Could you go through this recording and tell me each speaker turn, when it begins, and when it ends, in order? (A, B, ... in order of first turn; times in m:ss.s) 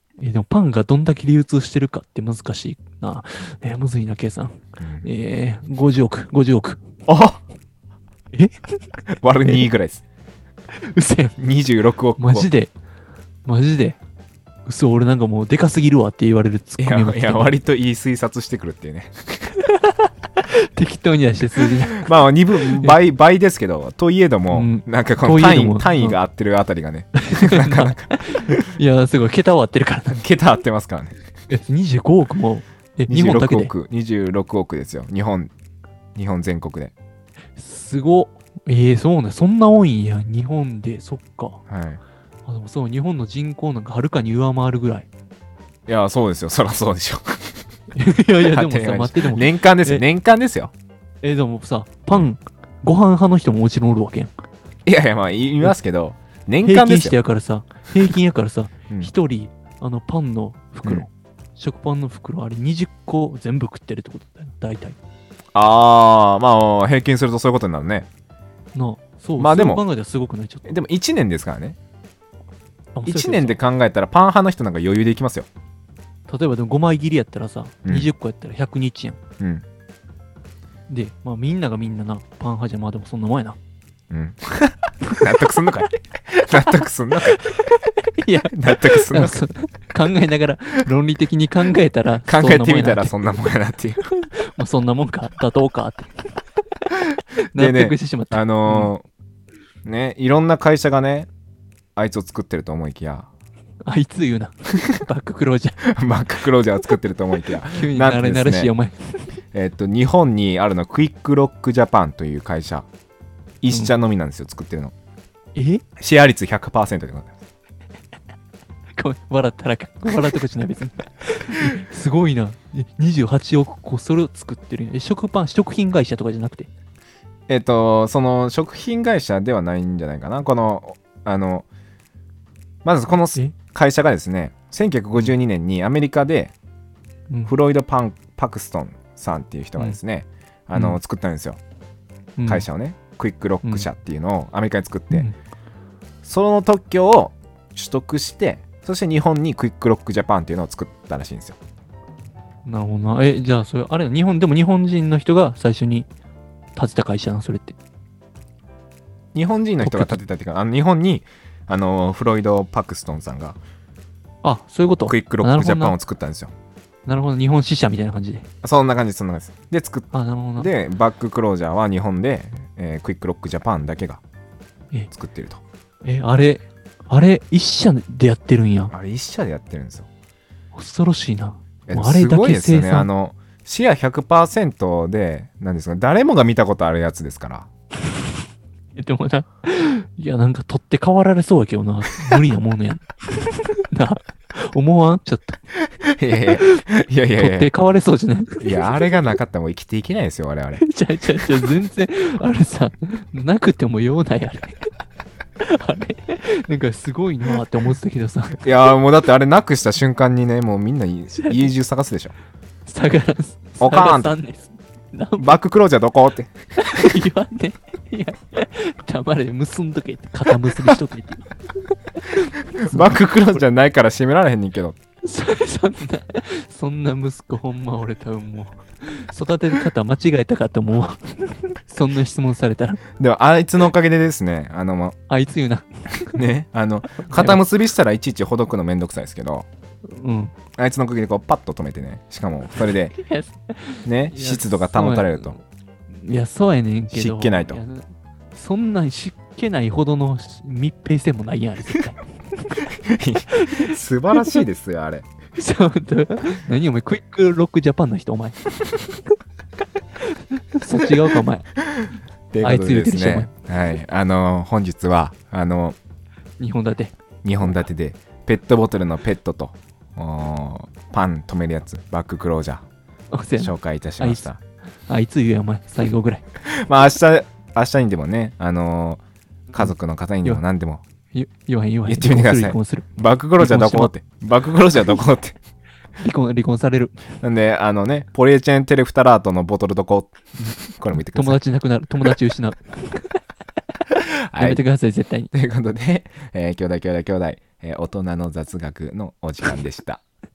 0:00.2-0:06.9 A
0:04.8-0:05.1 B
0:07.1-0:07.4 B
0:09.1-0:10.0 B
0:10.8-0:11.3 A
0:11.4-0:12.5 B
0:12.2-0:12.7 A
0:13.4-0:14.0 A
0:14.6-0:17.5 A
0:16.8-0:19.1 B
0:19.7-0:22.1 A
0:21.6-0:28.7 B
0:22.6-0:23.0 A
0:24.5-0:26.2 A
0:27.3-0:30.2 A
0:30.1-0:31.1 B
0:31.5-0:33.7 A
0:33.1-0:35.5 B
0:36.2-0:36.9 B
0:37.6-0:41.6 A
0:41.7-0:42.0 B
0:42.4-0:45.1 A
0:45.9-0:47.6 B
0:48.0-0:50.0 A
0:48.4-0:50.7 B
0:51.2-0:54.3 A
0:54.8-0:57.2 B
0:56.6-1:05.0 A
1:05.5-1:08.1 B
1:08.7-1:10.8 A
1:09.4-1:09.8 B
1:10.6-1:11.8 B
1:12.9-1:13.6 A
1:13.0-1:15.5 B
1:16.3-1:19.2 A
1:17.8-1:18.1 B
1:20.9-1:23.6 A
1:24.1-1:27.4 B
1:27.4-1:33.1 A
1:28.4-1:29.4 B
1:32.2-1:34.0 B
1:34.2-1:36.1 A
1:37.5-1:38.9 A
1:37.5-1:39.0 B
1:39.8-1:41.3 B
1:42.0-1:43.3 B
1:43.8-1:45.8 A
1:45.9-1:48.7 B
1:47.7-1:49.3 A
1:49.5-1:52.9 B
1:53.6-1:54.9 B
1:55.5-1:55.8 A
1:56.0-1:57.3 B
1:59.0-2:06.7 A
2:07.5-2:11.6 B
2:12.8-2:16.5 B
2:17.4-2:21.6 B
2:20.7-2:21.0 A
2:22.4-2:22.6 A
2:22.4-2:25.3 B
2:26.2-2:31.6 B
2:32.6-2:36.1 A
2:36.8-2:37.8 A
2:39.3-2:43.6 B
2:39.8-2:40.2 A
2:44.4-2:46.0 A
2:45.0-2:46.5 B
2:47.1-2:48.4 A
2:48.6-2:54.2 B
2:50.1-2:50.7 A
2:55.1-2:55.6 B
2:56.0-2:58.9 A
2:58.9-3:00.1 B
3:00.7-3:03.1 A
3:01.9-3:07.7 B
3:09.0-3:15.6 A
3:15.9-3:17.7 B
3:16.4-3:16.8 A
3:17.4-3:18.9 A
3:18.6-3:20.8 B
3:20.8-3:24.8 A
3:21.4-3:21.7 B
3:25.6-3:28.6 A
3:28.6-3:32.3 B
3:31.4-3:31.6 A
3:32.8-3:35.6 A
3:33.8-3:34.3 B
3:35.4-3:37.2 B
3:36.8-3:41.5 A
3:42.2-3:43.6 A
3:42.8-3:45.0 B
3:45.2-3:53.0 A
3:53.2-3:55.2 B
3:55.3-3:56.4 A
3:56.3-3:59.7 B
3:57.2-3:57.6 A
4:00.1-4:00.5 A
4:00.8-4:03.2 B
4:03.1-4:12.2 A
4:04.0-4:05.6 B
4:07.1-4:07.8 B
4:12.8-4:15.3 B
4:13.5-4:14.6 A
4:15.6-4:18.6 A
4:20.7-4:21.7 A
4:22.0-4:26.0 B
4:22.6-4:23.5 A
4:26.6-4:27.8 A
4:27.4-4:32.8 B
4:33.3-4:34.4 A
4:33.5-4:34.6 B
4:35.1-4:36.4 A
4:36.6-4:39.2 B
4:39.7-4:41.0 B
4:41.3-4:43.1 A
4:42.0-4:45.6 B
4:43.6-4:44.1 A
4:46.2-4:47.2 A
4:47.4-4:50.4 B
4:50.9-4:51.6 B
4:51.2-4:53.2 A
4:54.5-4:54.8 B
4:54.6-4:55.5 A
4:55.5-5:00.2 B